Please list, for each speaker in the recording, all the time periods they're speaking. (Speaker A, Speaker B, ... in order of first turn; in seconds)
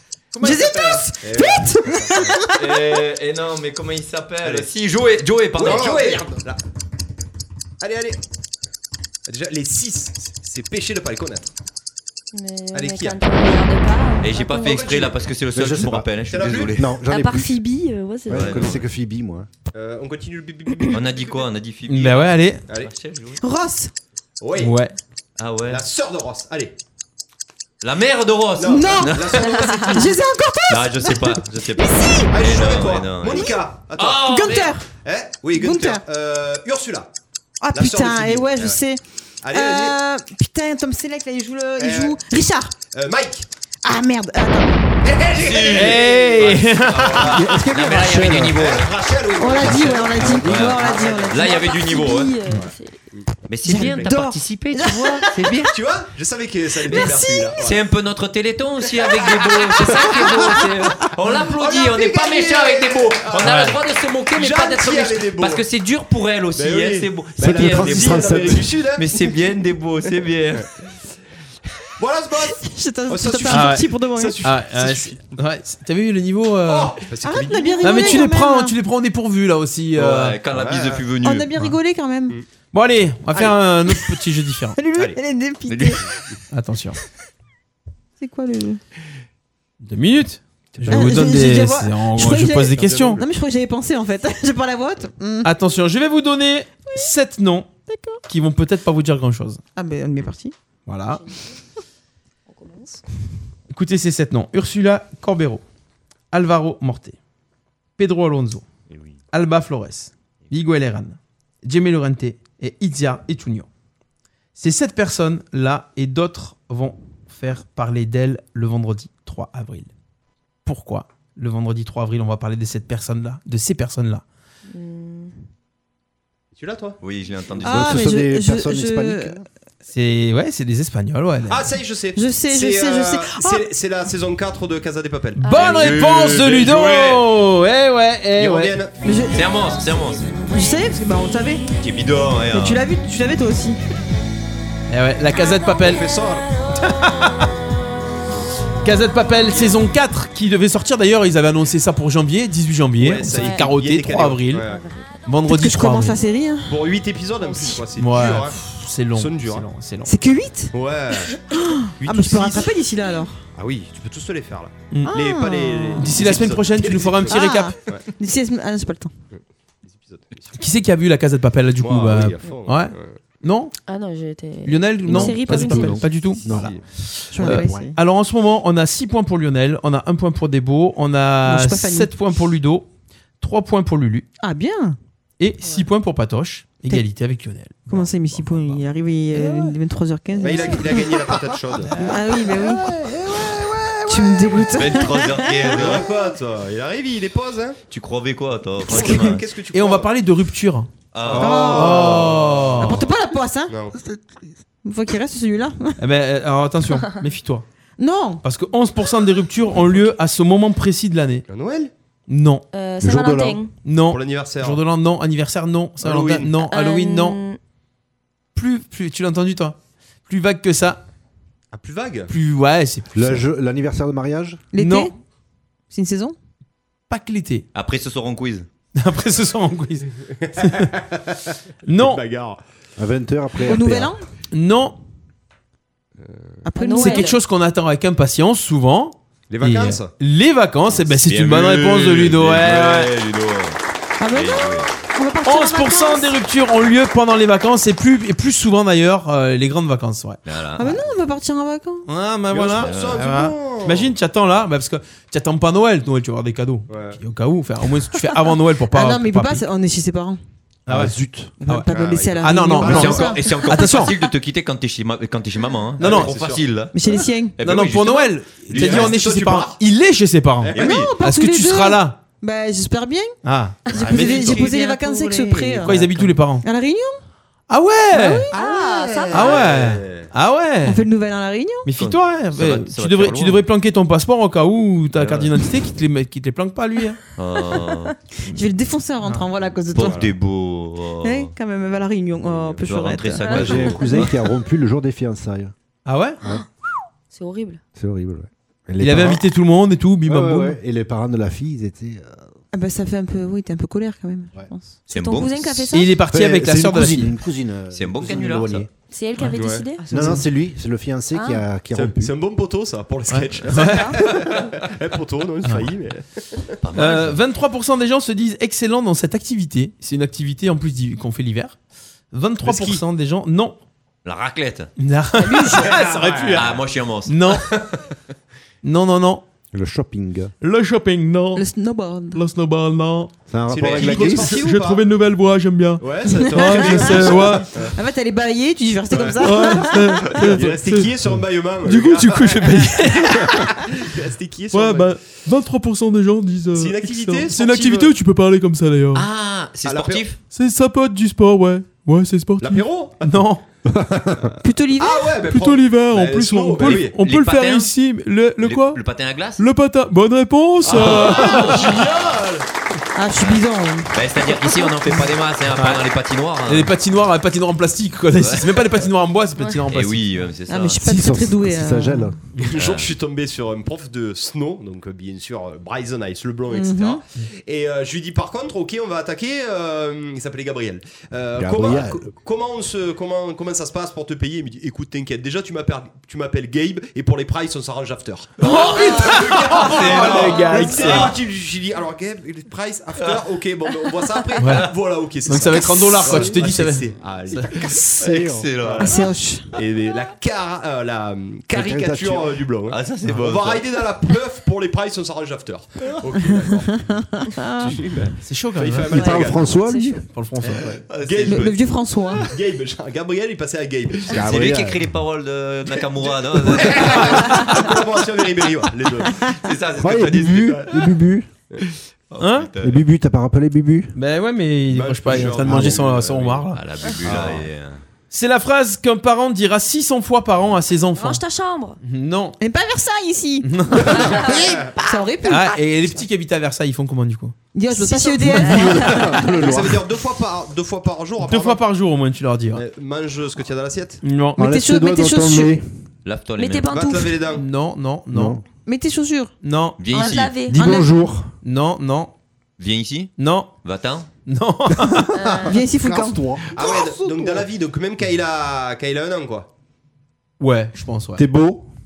Speaker A: 0.3-1.0, 21.9-22.6, 24.6-24.9, 45.7-47.5, 63.4-63.8, 73.5-73.9, 74.4-77.0, 77.8-80.4, 82.7-84.8, 86.5-87.0, 89.8-93.2, 95.4-97.7, 98.3-99.6, 100.9-101.2, 103.7-105.6, 106.3-107.2, 108.0-108.7, 109.3-113.7, 114.6-119.9, 120.7-124.2, 129.9-131.7, 135.4-138.8, 144.9-146.1, 146.8-147.5, 148.8-154.7, 155.3-156.2, 158.0-160.1, 164.9-165.2, 166.0-167.8, 170.6-173.7, 174.7-182.9, 183.4-184.3, 185.4-188.8, 189.3-189.8, 191.9-193.1, 199.7-200.9, 201.6-203.0, 206.0-207.7, 208.4-211.4, 212.3-212.6, 213.8-217.4, 218.6-219.8, 220.3-221.0, 222.3-223.4, 224.8-225.1, 227.1-227.7, 229.0-230.9, 231.9-232.2, 234.5-235.0, 237.0-243.1, 245.4-250.4, 252.1-259.6, 260.9-261.1, 261.6-264.2, 266.0-266.3, 267.6-272.2, 273.4-274.6, 275.8-276.6, 277.7-278.5, 279.3-281.1, 281.9-287.2, 296.1-296.4, 299.0-300.8, 305.9-307.4, 313.3-314.3, 315.6-315.9, 316.9-321.8, 322.3-323.8, 325.0-327.7, 328.8-329.4, 330.6-331.6, 332.3-333.3, 333.9-337.7, 339.4-341.1, 341.8-343.8, 344.7-349.3, 350.5-353.6, 355.4-359.0, 359.6-362.1, 365.7-366.1, 366.7-370.4, 388.6-391.4, 394.6-394.9, 395.4-397.8, 408.4-409.4, 410.3-411.0, 422.4-422.7, 424.1-426.8, 428.3-431.4, 432.0-432.6, 433.6-434.5, 435.5-437.6, 441.4-442.8, 444.2-444.6, 447.5-448.6, 449.6-450.5, 451.6-452.3, 453.4-453.7, 454.5-455.3, 460.6-461.4
Speaker B: 0.4-2.5, 23.4-23.9, 28.7-29.2, 29.8-32.3, 34.3-34.9, 35.5-36.0, 37.6-39.0, 39.5-42.7, 43.8-44.7, 49.4-51.7, 53.6-55.3, 56.9-57.5, 72.6-74.4, 77.2-78.7, 81.2-82.4, 84.8-86.0, 88.2-88.8, 90.9-95.5, 97.9-98.2, 99.8-100.5, 127.6-129.3, 132.2-133.7, 139.0-139.5, 140.5-141.7, 142.5-143.8, 155.5-156.8, 160.1-160.7, 161.3-163.4, 165.1-166.2, 167.3-169.1, 175.1-175.9, 177.3-178.0, 181.5-182.1, 184.4-185.0, 187.9-191.0, 192.0-192.9, 194.1-195.8, 198.9-199.3, 201.4-202.2, 202.8-203.7, 204.8-206.0, 208.0-208.4, 224.7-225.1, 225.9-226.4, 233.7-234.2, 236.6-237.3, 244.2-246.3, 250.8-252.1, 258.9-260.4, 261.6-263.8, 266.9-267.6, 270.8-273.3, 273.9-277.2, 278.1-278.6, 280.9-281.9, 288.4-290.3, 291.2-293.8, 302.7-305.8, 310.0-310.5, 331.6-332.4, 336.3-340.4, 354.6-355.4, 363.2-364.9, 370.7-372.3, 376.7-377.2, 399.0-399.7, 407.4-407.9, 411.4-412.5, 432.6-435.8, 437.8-439.3, 444.6-445.8, 448.9-449.5, 450.7-451.1, 455.7-456.4
Speaker C: 1.2-2.5, 4.4-4.7, 5.5-6.6, 7.8-8.2, 9.3-11.5, 12.7-13.6, 14.6-15.2, 16.3-16.8, 19.7-21.5, 24.4-24.7, 25.7-26.7, 28.6-30.1, 32.3-37.1, 37.7-38.8, 39.4-40.0, 41.8-42.2, 42.9-43.5, 45.0-51.6, 52.5-53.3, 55.7-57.8, 59.0-63.8, 64.3-65.7, 66.6-69.3, 72.0-75.4, 76.7-78.2, 80.5-81.1, 92.7-93.2, 126.5-127.0, 131.5-135.7, 138.4-138.9, 145.8-146.5, 149.5-149.8, 153.0-154.8, 156.7-158.6, 159.1-159.7, 160.7-161.4, 162.0-162.7, 163.6-168.1, 169.3-170.6, 171.8-173.2, 176.5-176.8, 190.4-191.9, 195.7-197.8, 198.9-200.1, 201.2-203.1, 203.7-204.0, 211.5-211.9, 214.1-214.8, 216.0-216.5, 221.7-222.3, 230.3-232.6, 236.2-236.6, 239.5-240.1, 252.5-254.1, 256.9-257.2, 261.9-263.4, 266.0-266.7, 268.7-269.8, 270.6-271.0, 274.0-274.6, 278.6-280.3, 290.0-290.3, 309.5-309.8, 311.9-316.7, 322.6-323.0, 325.5-326.7, 333.7-335.0, 336.0-337.9, 339.1-345.1, 346.8-348.1, 349.9-350.2, 352.6-353.5, 354.4-357.2, 360.9-362.6, 372.6-399.2, 399.7-407.3, 407.8-409.7, 410.6-411.8, 412.4-414.7, 416.2-419.6, 420.5-421.0, 424.9-426.6, 427.3-427.7, 439.5-441.8, 442.7-444.2, 446.9-447.6, 456.7-459.7
Speaker D: 2.5-6.2, 14.2-17.0, 18.3-18.8, 20.9-23.4, 25.4-25.9, 27.8-29.6, 30.7-34.8, 45.3-48.9, 49.5-52.4, 53.5-55.8, 56.9-70.7, 80.0-81.5, 85.7-86.0, 108.9-109.2, 127.0-128.1, 135.6-137.2, 139.3-140.4, 141.8-142.8, 194.7-196.1, 197.9-199.5, 201.1-202.1, 227.7-228.7, 241.0-244.9, 250.4-251.1, 252.8-253.3, 262.9-267.0, 267.6-269.2, 270.7-271.1, 281.9-283.6, 285.1-285.6, 287.4-288.1, 289.9-291.5, 292.8-294.2, 305.1-305.9, 307.9-308.9, 316.8-317.4, 324.2-324.9, 326.6-327.8, 349.1-350.4, 357.2-357.9, 358.6-359.6, 360.9-362.5, 363.4-366.9, 368.4-369.0, 369.9-371.1, 372.7-373.1, 388.6-391.3, 398.2-399.1, 402.9-403.9, 411.0-411.8, 414.4-417.6, 419.5-420.8, 422.3-423.0, 426.7-428.0, 446.2-447.0, 450.0-450.6, 452.8-454.3
Speaker E: 5.6-6.2, 15.5-16.1, 16.7-17.5, 18.3-19.5, 47.3-48.6, 67.4-68.7, 127.6-129.5, 175.1-176.8, 177.3-177.9, 193.0-194.4, 203.9-204.4, 213.0-213.6, 223.1-224.6, 233.0-234.1, 260.9-261.5, 293.5-295.7, 298.0-299.4, 300.2-302.5, 306.3-308.9, 310.1-312.3, 329.7-330.5, 333.5-334.6, 353.9-354.5, 371.0-372.4, 381.6-382.3, 397.8-398.7, 401.7-402.6, 409.1-410.2, 414.3-415.1, 420.0-421.5, 422.8-424.1, 425.3-426.0, 438.5-440.0, 444.6-445.9, 448.3-448.6, 450.7-451.5, 455.4-457.7, 461.4-461.9
Speaker F: 12.3-14.9, 17.0-18.8, 29.4-30.0, 51.4-53.0, 101.1-101.6, 102.5-103.0, 124.7-125.3, 135.4-135.8, 153.3-153.6, 154.6-155.2, 173.9-176.1, 212.7-213.7, 216.6-217.6, 236.8-237.4, 273.9-275.8, 278.5-279.7, 293.4-294.3, 297.3-297.8, 305.1-306.1, 309.0-310.4, 311.3-311.6, 313.7-314.2, 369.6-369.8, 409.8-410.2, 431.1-432.0, 434.3-434.6, 438.1-439.3, 446.6-447.4, 450.1-451.0, 455.3-455.8